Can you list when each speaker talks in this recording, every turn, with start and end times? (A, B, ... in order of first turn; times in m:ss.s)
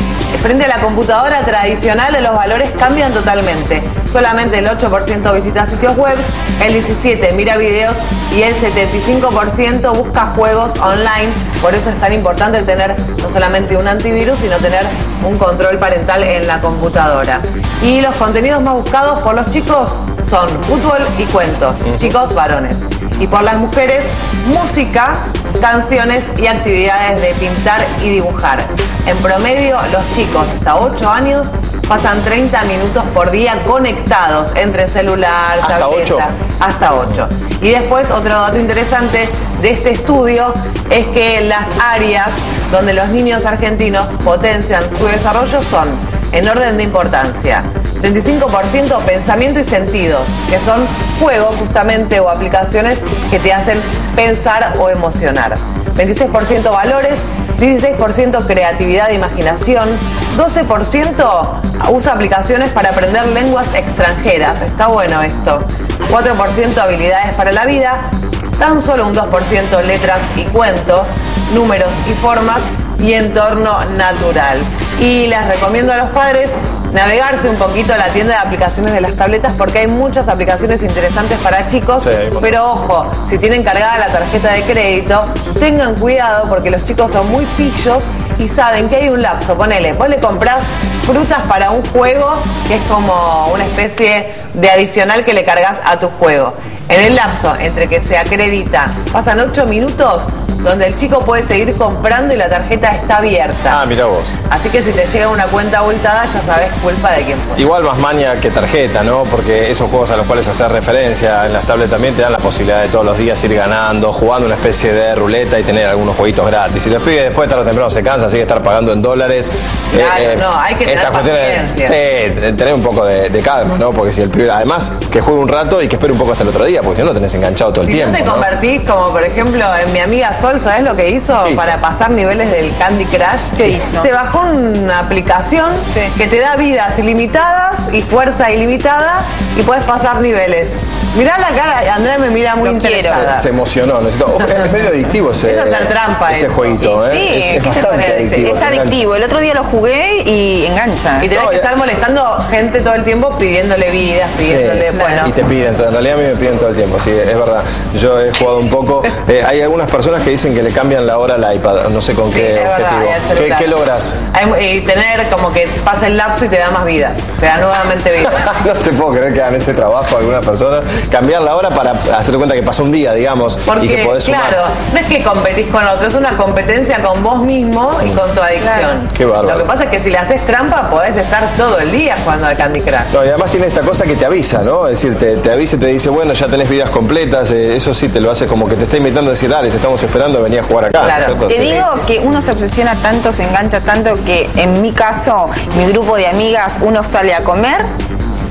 0:00.3-1:08.0 A
0:35.6-0:36.3 B
1:08.6-1:43.8 A
1:22.0-1:22.6 B
1:43.7-1:44.4 B
1:44.5-1:47.6 A
1:47.6-2:08.5 B
1:59.9-2:02.0 A
2:07.8-2:23.5 A
2:11.4-2:11.8 B
2:13.6-2:14.1 C
2:22.6-2:23.3 C
2:23.0-2:29.0 B
2:25.4-2:26.8 A
2:26.8-2:31.3 C
2:27.7-2:28.2 A
2:31.2-2:35.3 A
2:31.3-2:31.7 B
2:34.4-2:44.2 B
2:42.3-2:48.5 A
2:48.2-2:54.6 B
2:53.7-3:03.1 A
2:58.6-2:59.0 C
2:59.1-2:59.6 B
3:03.1-3:11.9 B
3:11.0-3:11.4 A
3:11.4-3:17.8 C